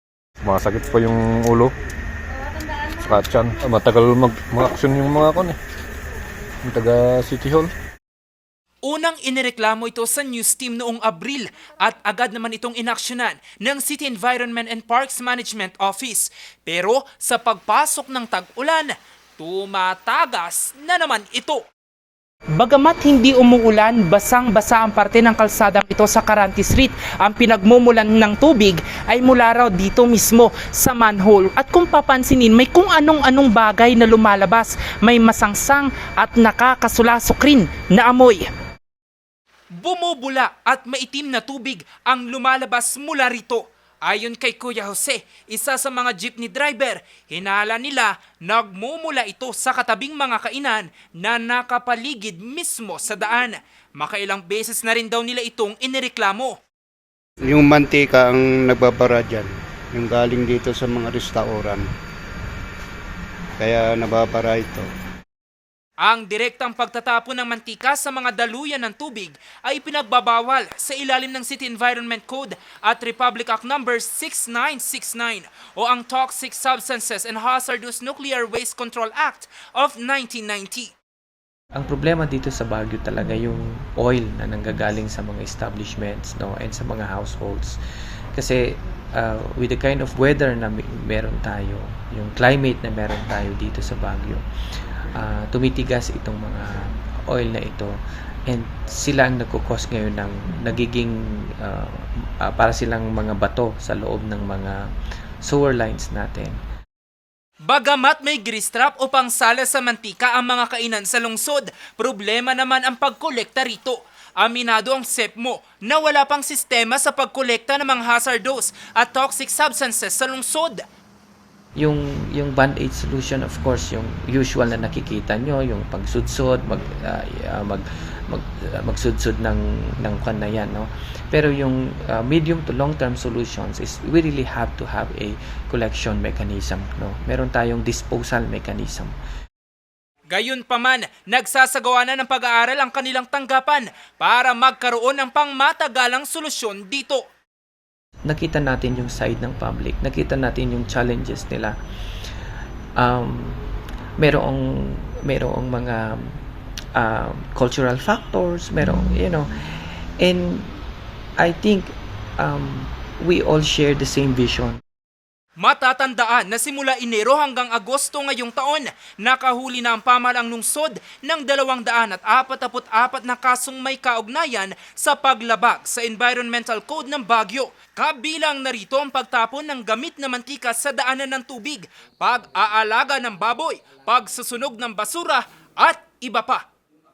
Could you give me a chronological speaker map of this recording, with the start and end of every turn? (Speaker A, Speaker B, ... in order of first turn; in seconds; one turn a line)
Speaker A: 0.4-1.7
Speaker A: 3.0-5.6
Speaker A: 6.6-7.7
Speaker B: 8.8-21.6
Speaker B: 22.5-38.5
Speaker B: 39.8-56.6
Speaker C: 57.5-61.9
Speaker C: 63.6-64.9
Speaker B: 66.0-80.9
Speaker D: 81.7-87.8
Speaker D: 88.3-94.4
Speaker D: 95.1-97.9
Speaker D: 98.5-104.8
Speaker D: 105.4-106.6
Speaker B: 107.6-120.8
Speaker D: 121.8-139.2
Speaker B: 140.3-147.2
Speaker D: 148.2-151.7
Speaker D: 153.0-153.6
Speaker D: 154.2-156.4
Speaker D: 156.9-160.8
Speaker D: 161.4-164.8
Speaker B: 165.6-186.7